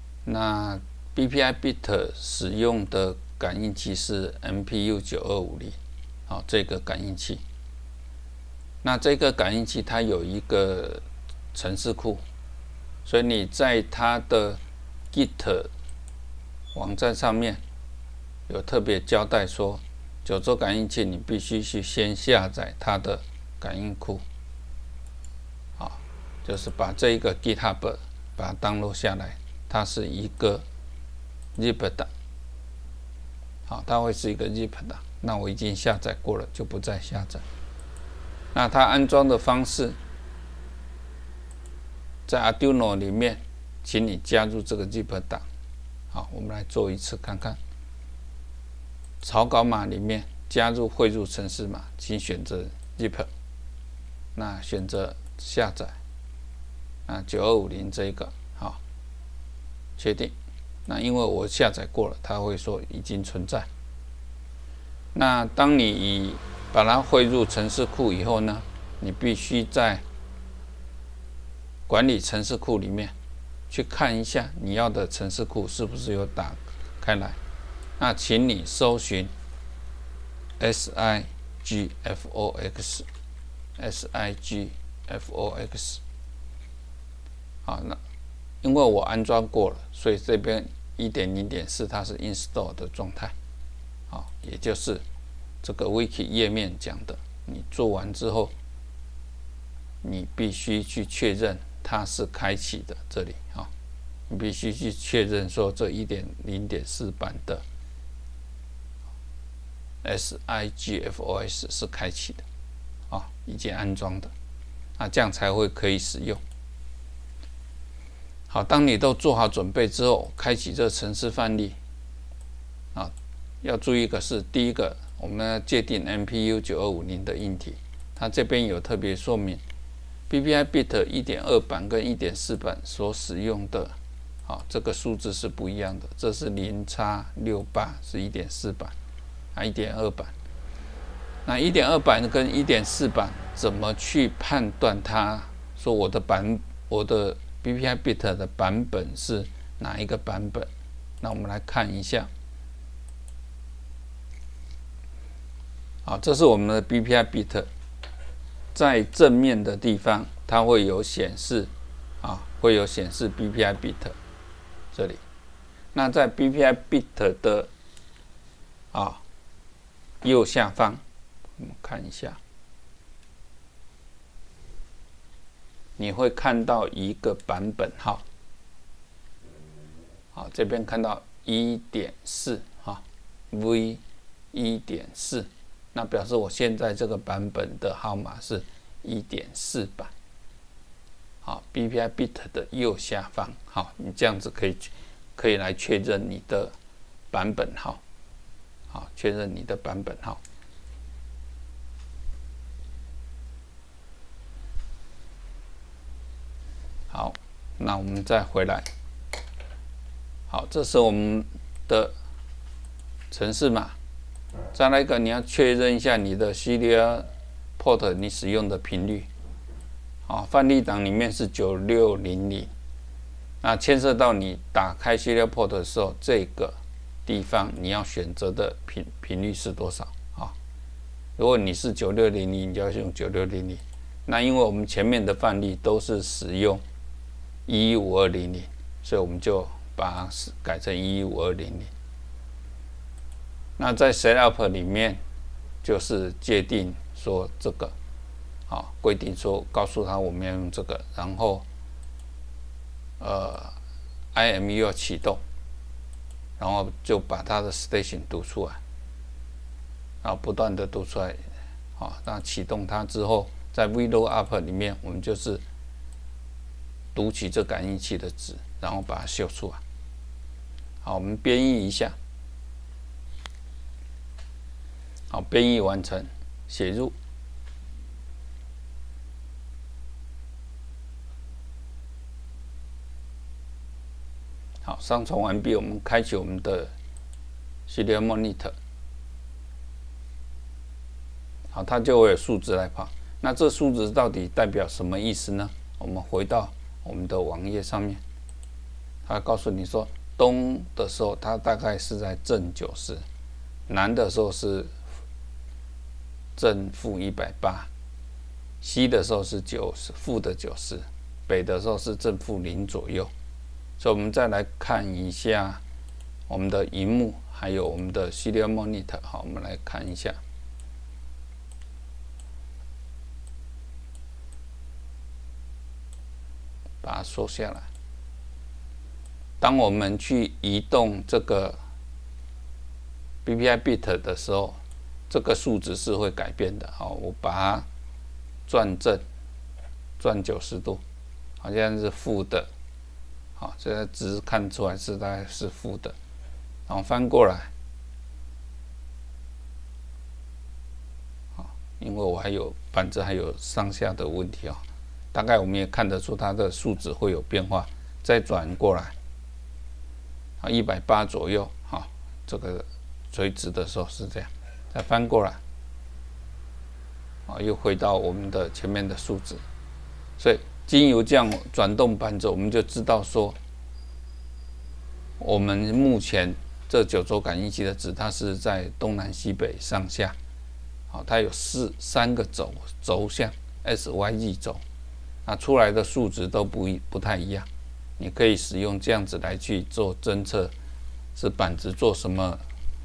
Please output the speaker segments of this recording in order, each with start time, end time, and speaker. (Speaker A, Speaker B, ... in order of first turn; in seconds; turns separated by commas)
Speaker A: 0.2-5.8, Speaker A: 6.3-7.4, Speaker A: 8.8-12.2, Speaker A: 13.0-14.6, Speaker A: 15.1-15.7, Speaker A: 16.7-17.6, Speaker A: 18.5-24.2, Speaker A: 25.8-30.6, Speaker A: 31.6-32.1, Speaker A: 33.7-37.4, Speaker A: 38.5-40.0, Speaker A: 42.3-45.4, Speaker A: 46.1-47.6, Speaker A: 49.2-53.3, Speaker A: 54.3-56.0, Speaker A: 57.0-58.8, Speaker A: 60.0-60.3, Speaker A: 60.9-63.7, Speaker A: 65.1-70.0, Speaker A: 71.9-73.1, Speaker A: 73.7-77.4, Speaker A: 78.0-79.3, Speaker A: 80.6-83.0, Speaker A: 83.8-86.0, Speaker A: 87.6-88.0, Speaker A: 88.6-93.3, Speaker A: 94.1-95.0, Speaker A: 95.6-98.5, Speaker A: 100.0-103.7, Speaker A: 104.3-107.6, Speaker A: 110.0-112.4, Speaker A: 113.1-114.3, Speaker A: 115.0-116.4, Speaker A: 118.5-121.8, Speaker A: 122.9-129.6, Speaker A: 130.3-133.9, Speaker A: 134.4-138.9, Speaker A: 139.5-140.3, Speaker A: 141.4-150.7, Speaker A: 151.2-152.3, Speaker A: 156.0-157.7, Speaker A: 158.7-161.7, Speaker A: 162.2-164.1, Speaker A: 164.9-165.2, Speaker A: 165.9-167.7, Speaker A: 168.9-169.2, Speaker A: 170.2-171.0, Speaker A: 171.6-172.4, Speaker A: 176.0-178.2, Speaker A: 180.3-184.0, Speaker A: 184.5-190.1, Speaker A: 191.4-196.7, Speaker A: 197.3-198.0, Speaker A: 198.9-200.4, Speaker A: 207.1-208.9, Speaker A: 210.5-212.1, Speaker A: 213.3-214.0, Speaker A: 214.7-219.3, Speaker A: 220.2-222.7, Speaker A: 223.6-230.5, Speaker A: 231.4-236.8, Speaker A: 237.7-241.9, Speaker A: 243.8-245.2, Speaker A: 245.8-247.9, Speaker A: 248.7-251.7, Speaker A: 253.2-253.7, Speaker A: 254.3-255.4, Speaker A: 256.6-258.8, Speaker A: 260.2-261.4, Speaker A: 262.0-265.6, Speaker A: 267.1-269.8, Speaker A: 271.0-272.1, Speaker A: 275.3-277.1, Speaker A: 284.8-286.9, Speaker A: 287.9-288.7, Speaker A: 291.7-298.2, Speaker A: 299.2-303.2, Speaker A: 303.9-304.9, Speaker A: 306.6-307.9, Speaker A: 308.8-313.3, Speaker A: 314.0-315.8, Speaker A: 316.5-320.4, Speaker A: 327.0-327.9, Speaker A: 329.6-331.8, Speaker A: 333.4-334.8, Speaker A: 335.3-337.9, Speaker A: 338.7-339.2, Speaker A: 340.2-341.0, Speaker A: 341.6-342.7, Speaker A: 343.6-346.1, Speaker A: 346.9-347.7, Speaker A: 351.6-354.8, Speaker A: 355.3-359.1, Speaker A: 360.6-365.6, Speaker A: 367.5-369.6, Speaker A: 370.4-373.6, Speaker A: 375.4-380.4, Speaker A: 381.1-384.8, Speaker A: 385.4-387.7, Speaker A: 388.2-390.7, Speaker A: 391.3-392.6